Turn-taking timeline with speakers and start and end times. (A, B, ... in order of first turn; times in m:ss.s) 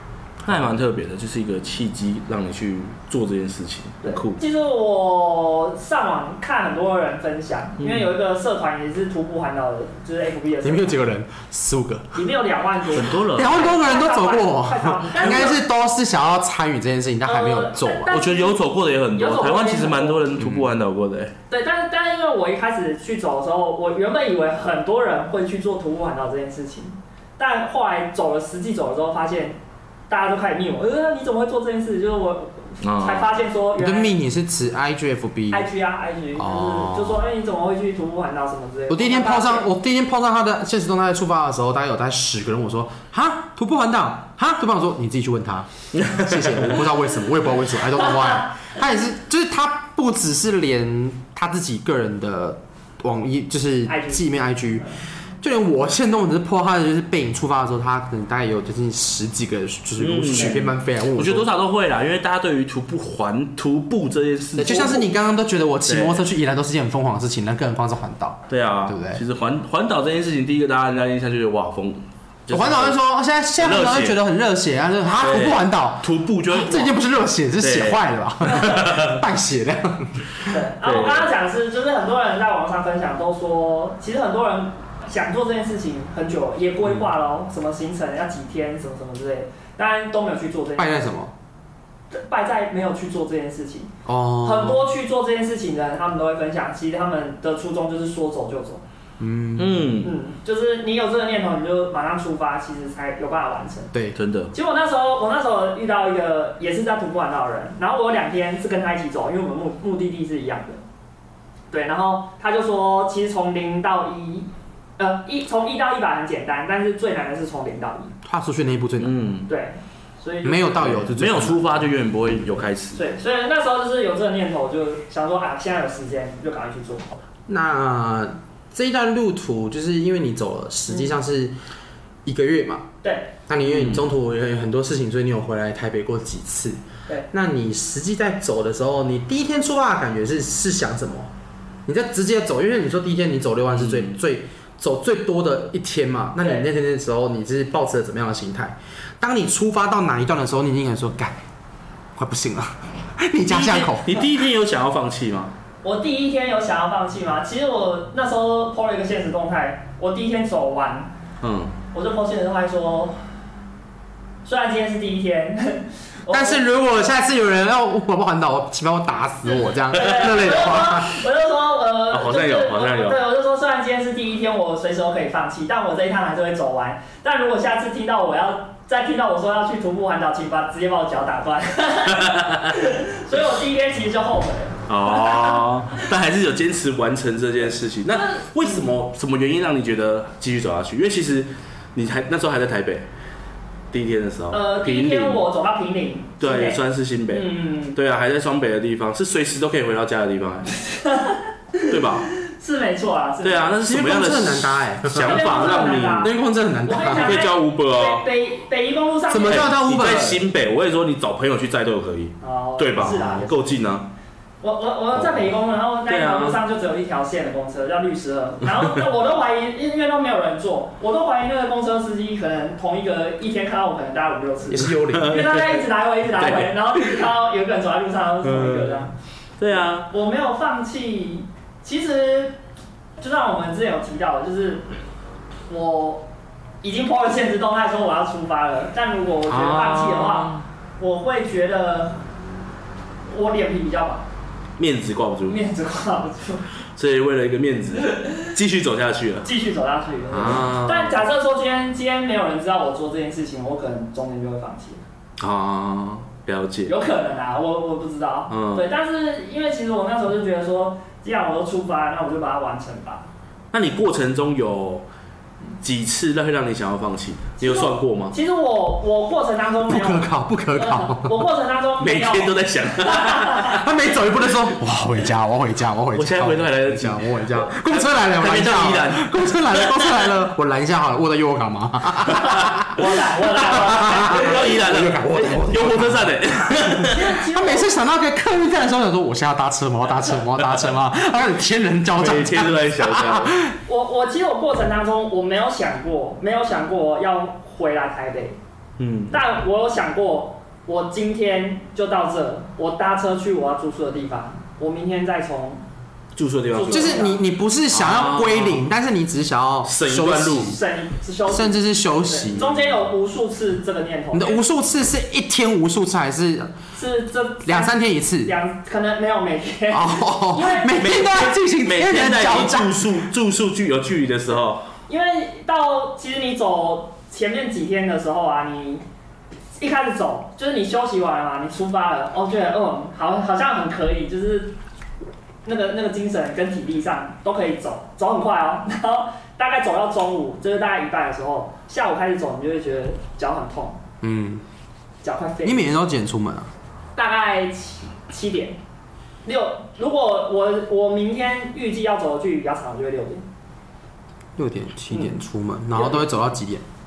0:00.4-0:04.4 A
0:04.0-0:11.0 B
0:07.8-0:08.1 A
0:10.6-0:12.2 C
0:12.2-0:15.6 B
0:12.9-0:13.6 A
0:13.1-0:18.1 C
0:15.2-0:15.5 A
0:17.2-0:18.6 B
0:18.1-0:21.3 A
0:19.1-0:20.2 B
0:20.4-0:20.7 C
0:21.5-0:34.1 B
0:32.8-0:33.3 A
0:33.8-0:35.7 C
0:35.5-0:39.7 B
0:36.4-0:37.2 C
0:38.9-0:54.9 C
0:45.9-0:46.8 A
0:53.9-0:55.0 B
0:55.4-1:01.5 C
1:00.0-1:05.1 A
1:00.3-1:00.6 B
1:04.6-1:09.2 C
1:05.9-1:06.2 A
1:08.5-1:13.0 A
1:12.5-1:20.2 C
1:13.6-1:14.2 A
1:15.2-1:17.0 A
1:17.6-1:19.2 A
1:20.5-1:31.2 B
1:20.8-1:21.3 A
1:30.8-1:31.3 C
1:32.1-1:38.8 B
1:34.0-1:34.8 C
1:39.2-1:39.9 C
1:39.6-1:40.1 A
1:40.0-1:43.9 B
1:44.2-1:44.5 A
1:44.5-1:50.8 B
1:51.7-1:58.1 B
1:58.2-1:59.1 C
1:59.0-1:59.5 A
1:59.5-2:01.0 B
2:00.4-2:01.8 C
2:00.8-2:03.0 A
2:02.9-2:07.2 B
2:07.5-2:11.5 C
2:12.2-2:12.9 C
2:13.0-2:13.3 B
2:13.5-2:16.8 C
2:13.7-2:14.1 A
2:17.3-2:21.3 C
2:21.9-2:31.4 C
2:23.7-2:24.1 A
2:26.4-2:26.7 B
2:32.2-2:34.3 C
2:33.5-2:35.5 A
2:35.8-2:41.1 B
2:41.4-2:41.8 A
2:41.9-2:43.2 B
2:44.4-2:46.6 B
2:46.3-2:51.2 C
2:49.6-3:05.6 B
2:52.1-2:53.2 A
3:02.1-3:02.7 A
3:04.9-3:13.0 A
3:08.1-3:08.8 B
3:13.9-3:15.4 A
3:14.5-3:16.8 B
3:16.4-3:20.7 A
3:17.3-3:18.0 B
3:20.7-3:23.8 B
3:21.9-3:22.3 A
3:23.4-3:26.3 A
3:23.9-3:27.4 C
3:25.2-3:29.7 B
3:27.1-3:28.2 A
3:29.3-3:30.4 C
3:29.5-3:34.1 A
3:32.4-3:33.8 B
3:34.6-3:49.1 B
3:35.2-3:35.4 A
3:36.1-3:36.6 A
3:44.7-3:45.4 C
3:45.0-3:45.8 A
3:46.4-3:47.2 A
3:48.4-3:49.1 A
3:49.6-3:50.1 A
3:50.0-3:52.6 B
3:53.2-3:54.8 B
3:55.7-3:56.3 B
3:56.8-4:02.2 B
3:59.5-4:00.6 A
4:03.3-4:04.2 B
4:04.8-4:05.6 A
4:05.5-4:06.6 B
4:07.0-4:09.5 A
4:09.4-4:15.0 B
4:10.3-4:11.2 A
4:15.4-4:16.9 A
4:16.9-4:23.3 B
4:18.5-4:18.8 A
4:23.7-4:25.0 A
4:25.8-4:28.4 A
4:27.6-4:33.8 B
4:29.9-4:31.3 C
4:32.0-4:33.8 A
4:33.8-4:53.7 C
4:36.2-4:40.3 A
4:42.4-4:44.8 B
4:43.8-4:47.2 A
4:46.6-4:48.0 B
4:52.2-4:53.6 A
4:53.9-4:58.6 B
4:59.0-4:59.4 A
4:59.3-5:05.8 B
5:06.4-5:07.3 A
5:06.7-5:07.4 B
5:06.9-5:10.8 C
5:07.9-5:08.8 A
5:09.8-5:10.8 A
5:10.5-5:14.6 B
5:11.5-5:12.7 C
5:12.6-5:12.9 A
5:14.3-5:16.7 C
5:17.0-5:21.0 B
5:17.6-5:18.5 C
5:19.9-5:23.2 C
5:21.0-5:24.9 A
5:25.1-5:29.0 B
5:29.8-5:34.8 B
5:35.6-5:44.0 B
5:44.2-5:44.6 C
5:45.2-5:45.9 B
5:45.6-5:46.7 C
5:47.2-5:48.8 B
5:49.4-5:53.4 B
5:54.6-5:56.8 C
5:55.9-5:56.5 B